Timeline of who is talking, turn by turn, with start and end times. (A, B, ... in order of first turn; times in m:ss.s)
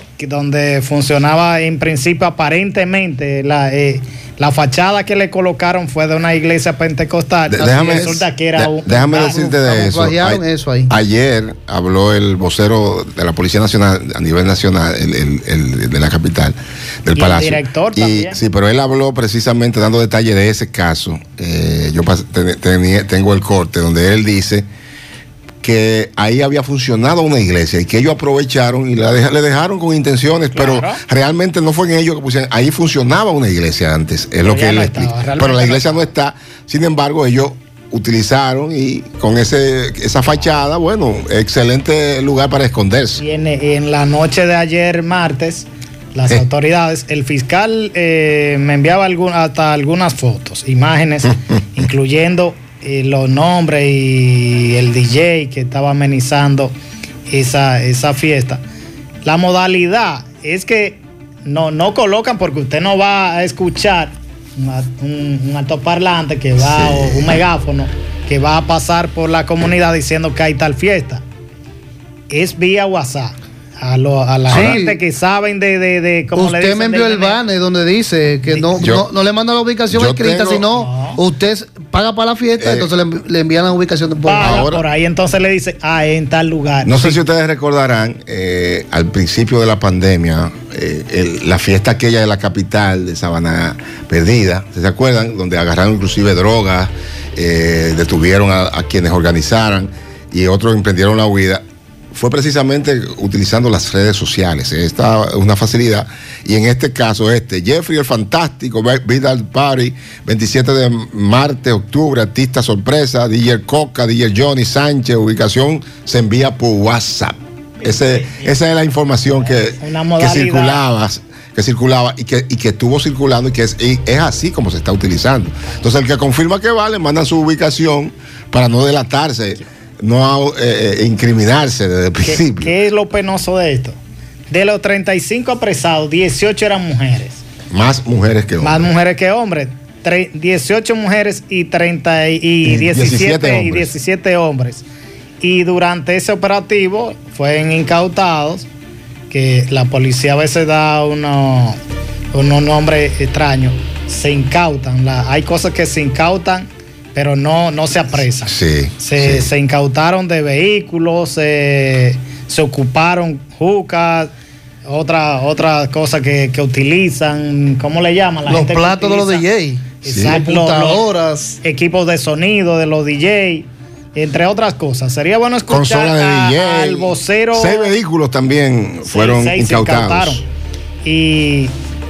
0:00.2-0:09.4 A
0:07.5-0:24.7 B
0:07.6-0:08.2 C
0:09.2-0:10.9 C
0:17.1-0:18.4 A
0:25.6-0:43.2 B
0:30.5-0:31.0 A
0:34.4-0:36.1 A
0:43.2-0:56.7 A
0:57.3-0:58.6 A
0:59.2-1:11.2 A
1:06.6-1:07.4 B
1:12.3-1:17.4 A
1:14.5-1:15.0 C
1:16.3-1:24.6 C
1:18.8-1:19.0 B
1:19.9-1:20.6 B
1:20.7-1:21.2 A
1:22.6-1:22.9 B
1:24.2-1:27.2 A
1:24.4-1:24.8 B
1:26.8-2:12.7 B
1:59.8-2:00.8 A
2:12.2-2:14.0 A
2:14.5-2:17.4 A
2:17.7-2:18.9 B
2:18.6-2:24.8 A
2:22.6-2:23.9 B
2:25.4-2:28.7 A
2:29.3-2:31.8 A
2:32.3-2:44.3 A
2:38.4-2:39.5 B
2:44.8-2:49.4 A
2:48.5-2:51.6 C
2:50.0-2:51.0 A
2:50.0-2:50.4 B
2:51.6-2:57.9 A
2:55.7-3:00.4 B
2:59.0-3:00.4 A
3:01.0-3:01.7 A